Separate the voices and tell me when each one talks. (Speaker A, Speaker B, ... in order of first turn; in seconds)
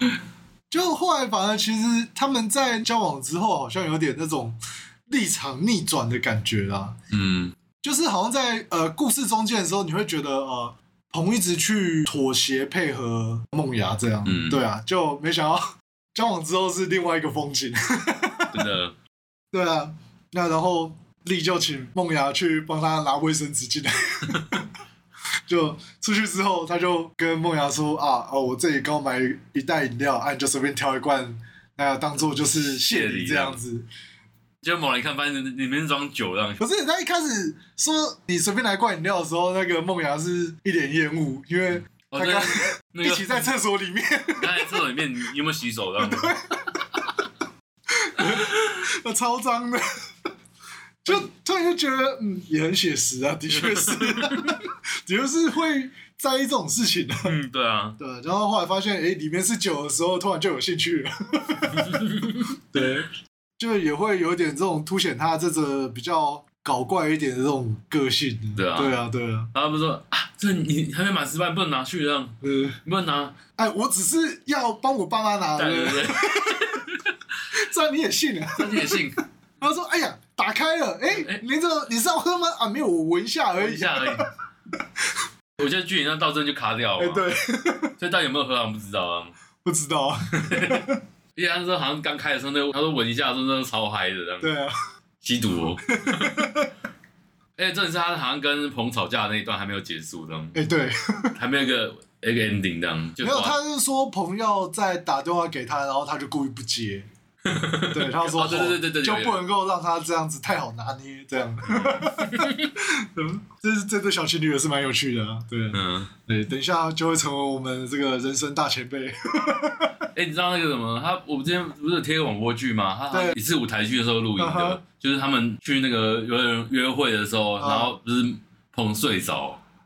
Speaker A: 0.7-7.0, 7.8-18.6, 19.5-24.6, 25.5-33.9, 36.6-44.8, 46.0-46.8, 47.9-49.8, 51.0-57.3, 58.0-63.1, 63.6-69.5, 72.4-72.8, 73.6-76.8, 77.5-84.3, 85.0-85.2, 87.0-87.9, 89.6-91.0, 94.4-94.7, 95.9-96.7, 100.5-101.3, 103.2-107.1, 107.9-119.9, 123.1-123.4, 124.4-124.8, 127.6-127.9
Speaker B: 7.1-7.5, 14.2-14.6, 18.5-18.9, 24.3-24.6, 32.3-33.6, 34.6-36.6, 41.9-43.5, 44.3-46.4, 48.2-48.8, 53.5-54.6, 57.2-58.0, 61.6-62.5, 68.5-69.0, 69.5-73.4, 75.5-77.2, 78.5-79.2, 81.1-81.4, 83.5-84.3, 85.6-87.3, 88.0-89.3, 90.3-94.5, 95.2-96.5, 97.6-100.6, 101.3-103.5, 107.4-109.4, 111.7-112.7, 115.7-116.1, 120.1-129.6